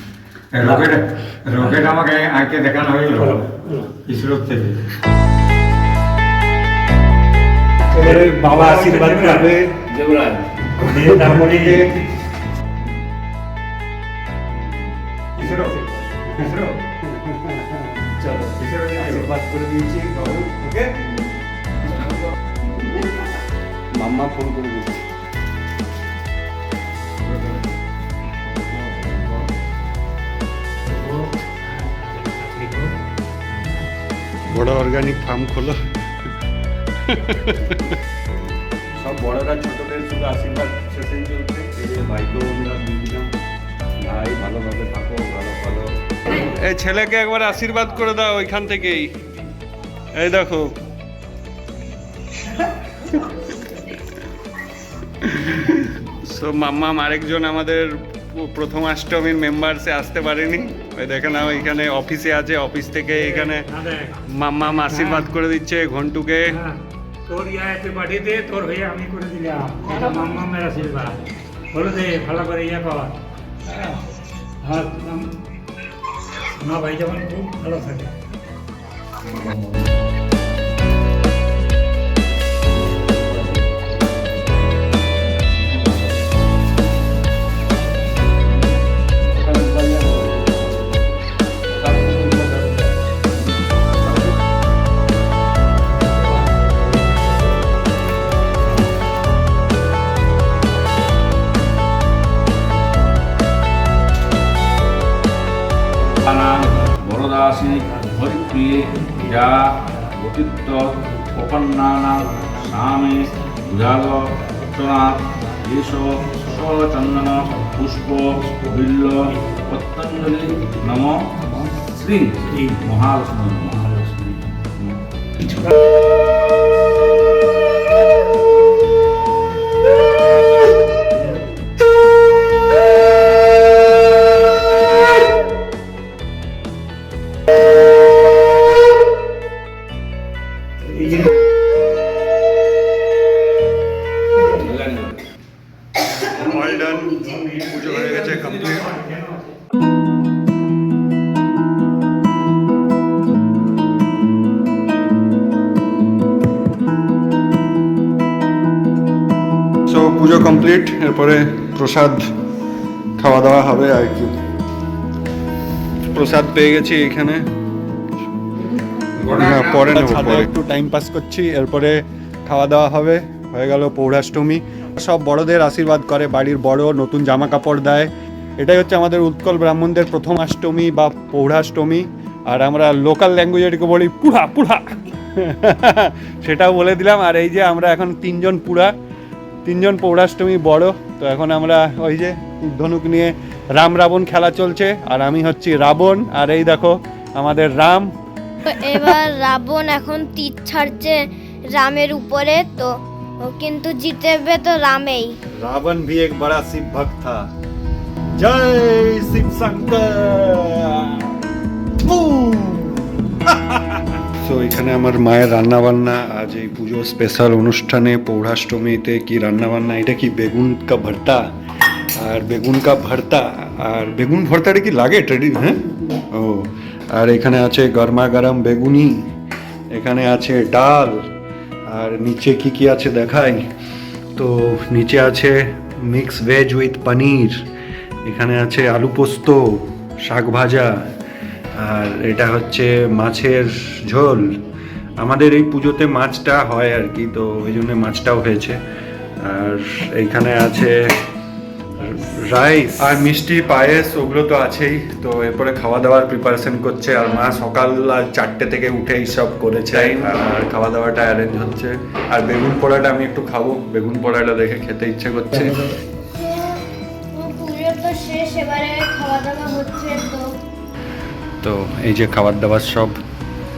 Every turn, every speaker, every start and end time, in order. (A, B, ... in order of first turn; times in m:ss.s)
0:00.5-0:04.8 A
0:03.2-0:03.9 B
0:07.9-0:09.5 B
0:08.0-0:09.7 C
0:09.9-0:10.4 D
0:10.8-0:11.8 B
0:10.9-0:11.9 A
0:15.4-0:16.3 C
0:15.4-0:15.7 A
0:16.4-0:16.7 A
0:17.1-0:21.0 C
0:18.6-0:19.2 A
0:23.9-0:25.0 C
0:28.7-0:29.4 A
0:30.9-0:32.9 B
0:34.5-0:35.8 C
0:37.1-0:38.0 C
0:38.9-0:43.3 C
0:44.0-0:49.2 C
0:50.1-0:50.8 C
0:55.2-1:03.7 C
1:03.3-1:04.1 B
1:04.2-1:06.6 C
1:04.9-1:05.2 B
1:06.5-1:11.2 B
1:11.7-1:13.2 B
1:14.6-1:15.3 B
1:16.6-1:18.1 B
1:23.0-1:23.8 A
1:29.5-1:30.6 A
1:46.2-2:03.9 D
2:02.5-2:02.8 B
2:03.7-2:04.4 B
2:05.4-2:05.7 B
2:20.9-2:21.3 B
2:24.6-2:25.2 D
2:26.3-2:29.0 C
2:27.9-2:28.4 D
2:29.0-2:29.5 B
2:39.9-2:42.3 C
2:43.2-2:44.3 C
2:46.0-2:47.4 C
2:49.2-2:50.4 D
2:49.2-3:08.9 C
3:09.6-3:18.1 C
3:18.6-3:25.4 E
3:25.6-3:27.5 C
3:28.4-3:31.4 C
3:32.0-3:41.4 C
3:42.2-3:49.2 C
3:49.9-3:51.3 C
3:51.9-3:53.6 C
3:54.4-3:57.6 C
3:58.2-4:01.0 C
4:01.7-4:04.6 C
4:05.2-4:08.8 C
4:09.4-4:11.0 C
4:12.0-4:25.9 C
4:26.3-4:30.5 E
4:31.6-4:33.2 C